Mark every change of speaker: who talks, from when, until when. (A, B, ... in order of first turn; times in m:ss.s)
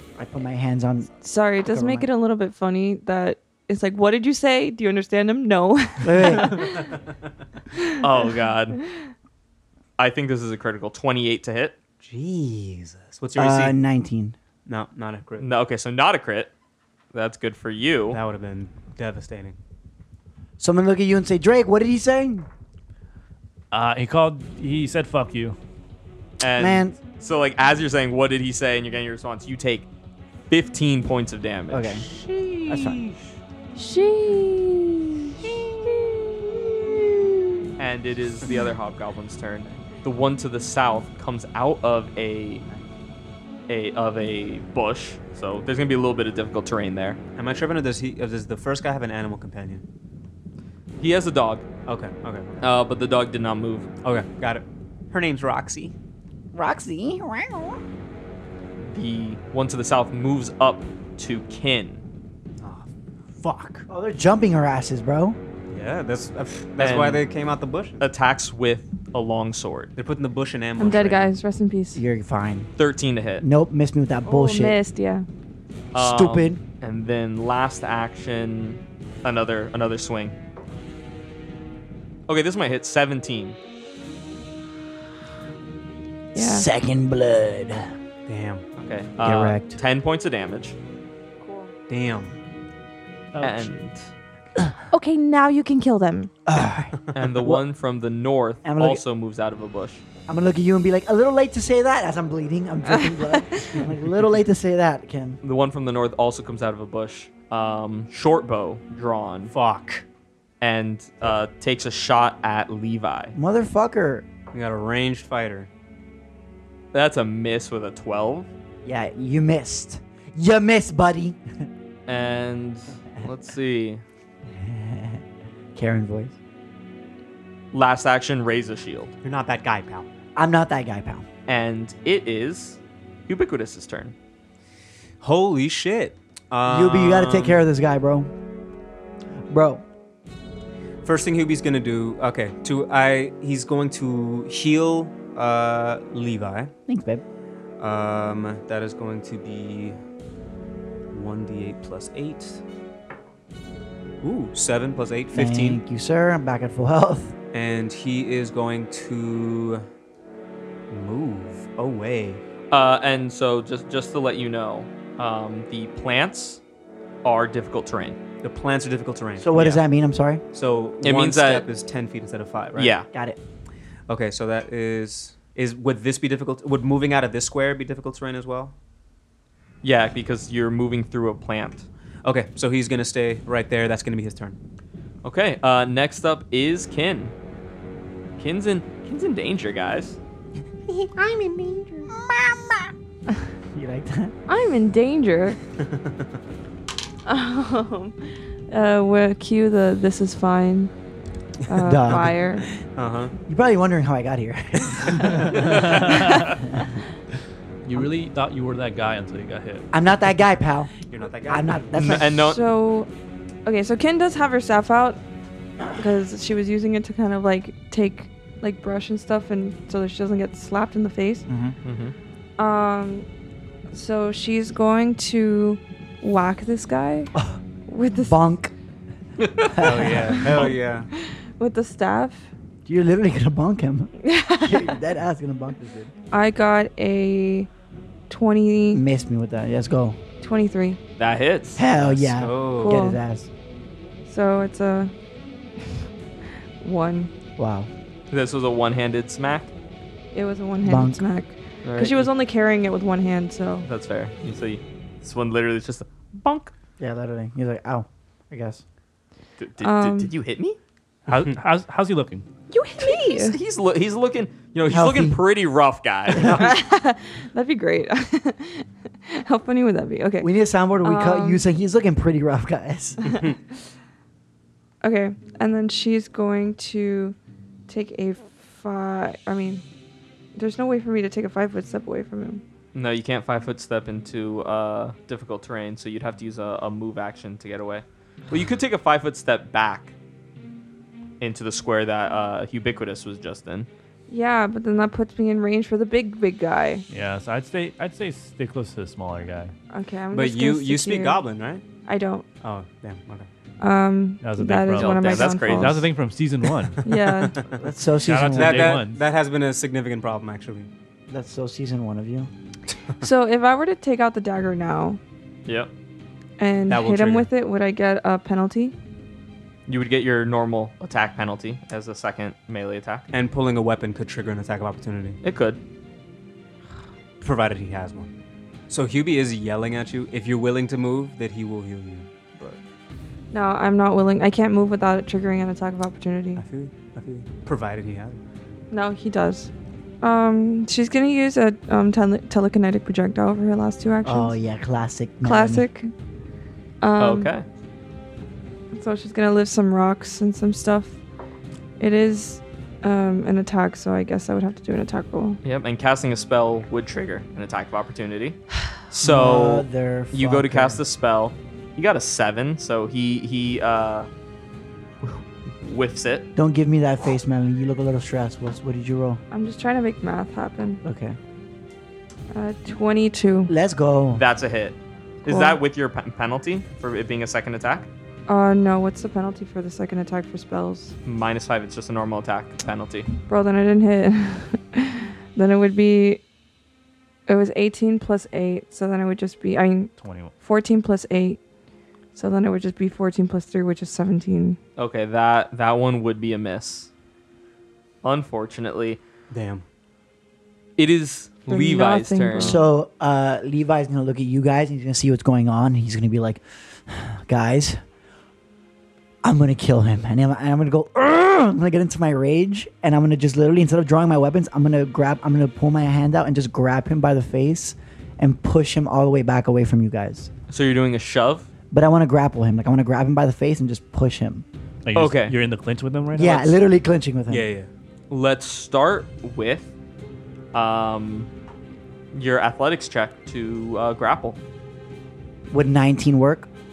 0:00.2-0:01.1 A
0:01.2-0:06.9 B
0:01.6-0:02.1 A
0:06.0-0:06.6 A
0:06.5-0:06.8 C
0:07.7-0:08.3 B
0:08.0-0:08.8 D
0:10.0-0:11.8 D
0:12.0-0:13.8 C
0:13.3-0:14.4 A
0:14.6-0:15.5 C
0:15.4-0:16.5 D
0:17.1-0:18.2 D
0:18.1-0:19.6 C
0:20.6-0:22.5 A
0:23.7-0:25.6 E
0:26.4-0:29.9 D
0:26.6-0:27.0 A
0:30.5-0:32.0 D
0:31.7-0:32.0 A
0:32.0-0:33.3 C
0:32.7-0:33.0 A
0:33.8-0:35.5 B
0:35.4-0:36.2 C
0:37.8-0:42.6 D
0:43.7-0:47.2 D
0:47.4-0:49.8 C
0:51.0-0:51.6 D
0:51.9-0:52.6 C
0:52.6-0:53.9 D
0:54.0-0:55.9 C
0:56.5-0:57.8 A
0:58.9-1:02.0 D
1:02.6-1:03.8 C
1:03.9-1:05.4 A
1:05.7-1:08.0 C
1:06.8-1:07.2 D
1:08.0-1:09.9 D
1:10.0-1:11.3 C
1:10.8-1:12.0 B
1:11.9-1:12.7 A
1:12.8-1:13.4 D
1:13.4-1:14.8 A
1:14.2-1:15.3 B
1:15.9-1:16.6 A
1:15.9-1:20.4 D
1:22.3-1:23.6 D
1:26.3-1:26.7 B
1:26.3-1:27.9 A
1:28.3-1:28.6 C
1:28.8-1:30.8 D
1:29.2-1:29.8 A
1:31.4-1:31.7 B
1:31.9-1:32.3 C
1:33.3-1:33.7 E
1:33.4-1:34.1 D
1:34.9-1:36.3 B
1:36.5-1:37.6 A
1:37.1-1:40.0 D
1:38.6-1:39.0 A
1:40.3-1:45.4 A
1:42.9-1:43.8 B
1:45.4-1:49.5 D
1:49.5-1:50.0 C
1:50.6-1:53.3 D
1:53.3-1:54.2 A
1:54.5-1:55.7 C
1:56.9-1:58.5 D
1:58.8-2:01.4 A
2:02.1-2:04.0 D
2:04.6-2:05.2 A
2:05.7-2:06.4 A
2:07.7-2:09.1 D
2:09.2-2:10.1 C
2:10.4-2:11.2 A
2:11.5-2:14.1 D
2:15.2-2:17.6 C
2:16.6-2:18.3 A
2:19.5-2:19.8 A
2:21.0-2:26.7 C
2:26.9-2:27.2 A
2:27.8-2:30.0 C
2:31.1-2:32.6 C
2:34.2-2:35.8 C
2:35.3-2:37.3 A
2:37.5-2:39.8 C
2:40.9-2:42.4 C
2:42.7-2:46.6 D
2:47.2-2:48.2 D
2:48.4-2:49.8 C
2:49.4-2:50.4 A
2:50.5-2:52.9 C
2:51.0-2:51.6 D
2:52.8-2:53.1 D
2:53.1-2:53.4 A
2:54.1-2:58.7 C
2:59.8-3:01.9 D
3:02.2-3:04.6 C
3:05.2-3:07.3 D
3:08.4-3:10.2 D
3:10.9-3:12.1 C
3:12.3-3:12.8 A
3:13.7-3:14.3 A
3:14.5-3:15.6 B
3:17.2-3:18.2 B
3:18.7-3:20.9 B
3:21.7-3:22.6 B
3:21.8-3:22.4 A
3:22.8-3:23.3 C
3:23.5-3:26.3 A
3:24.8-3:25.5 C
3:25.6-3:26.6 E
3:27.8-3:29.9 E
3:29.9-3:30.9 A
3:31.1-3:32.2 C
3:31.5-3:32.3 A
3:31.9-3:32.6 D
3:32.3-3:33.1 B
3:33.6-3:35.2 B
3:35.9-3:41.5 B
3:41.5-3:41.8 A
3:41.8-3:42.1 D
3:42.6-3:43.3 B
3:43.9-3:47.3 B
3:47.9-3:48.4 B
3:48.2-3:48.7 A
3:49.4-3:50.6 D
3:49.8-3:50.5 A
3:49.8-3:51.1 C
3:50.5-3:52.5 B
3:52.8-3:56.1 A
3:54.2-3:54.9 B
3:56.3-3:57.7 B
3:58.3-3:59.0 B
3:58.9-4:00.2 A
4:00.4-4:01.0 B
4:01.2-4:01.9 D
4:01.8-4:03.5 A
4:02.0-4:03.0 C
4:02.8-4:03.2 B
4:04.2-4:05.1 B
4:06.8-4:07.3 B
4:07.6-4:07.9 A
4:08.3-4:09.7 D
4:10.3-4:13.9 B
4:10.8-4:11.2 A
4:11.8-4:12.3 D
4:13.8-4:16.7 D
4:17.0-4:18.8 A
4:19.6-4:20.8 D
4:19.8-4:20.3 B
4:21.3-4:22.4 E
4:21.3-4:21.6 C
4:22.7-4:23.6 B
4:23.0-4:26.7 D
4:24.9-4:25.4 A
4:26.4-4:26.7 A
4:26.5-4:31.6 B
4:30.4-4:33.3 A
4:33.2-4:33.6 C
4:35.0-4:37.4 B
4:37.9-4:39.8 B
4:40.5-4:42.6 B
4:42.9-4:50.1 D
4:51.4-4:53.9 D
4:54.3-4:57.0 B
4:57.1-4:59.7 E
4:59.9-5:01.4 B
5:00.3-5:01.8 C
5:02.0-5:02.4 B
5:02.6-5:03.5 C
5:03.8-5:06.1 B
5:04.4-5:07.1 E
5:04.9-5:06.0 D
5:07.0-5:07.6 C
5:07.0-5:07.6 B
5:07.8-5:09.0 A
5:08.2-5:09.2 E
5:08.5-5:10.9 C
5:11.3-5:12.5 A
5:13.2-5:15.2 B
5:15.6-5:15.9 D
5:16.6-5:18.9 B
5:16.9-5:17.5 C
5:19.9-5:23.2 D
5:23.3-5:25.4 C
5:25.4-5:25.8 D
5:27.4-5:28.3 C
5:28.9-5:32.8 C
5:33.5-5:36.6 B
5:36.6-5:38.4 C
5:38.9-5:44.6 B
5:44.2-5:45.8 A
5:45.4-5:46.1 B
5:47.0-5:47.5 B
5:47.2-5:47.6 D
5:48.9-5:51.2 B
5:52.0-5:55.6 B
5:55.6-6:04.3 D
5:59.2-6:01.0 A
6:05.2-6:06.5 D
6:06.5-6:09.4 A
6:09.5-6:11.0 B
6:11.0-6:11.4 A
6:12.5-6:13.7 B
6:13.7-6:14.4 A
6:14.3-6:18.1 D
6:15.4-6:15.8 B
6:18.5-6:21.1 B
6:21.2-6:23.3 D
6:23.5-6:26.4 B
6:27.5-6:31.6 B
6:30.2-6:30.5 E
6:32.3-6:34.8 B
6:35.0-6:37.1 D
6:38.2-6:39.2 D
6:39.5-6:39.8 C
6:41.0-6:42.8 D
6:41.7-6:42.8 B
6:42.6-6:48.0 A
6:49.4-7:00.5 A
7:00.7-7:01.7 D
7:01.9-7:04.6 A
7:05.0-7:06.8 E
7:05.1-7:05.5 D
7:06.3-7:07.6 A
7:07.5-7:07.9 C
7:08.3-7:09.9 D
7:10.7-7:11.5 D
7:12.3-7:14.6 D
7:15.7-7:16.7 A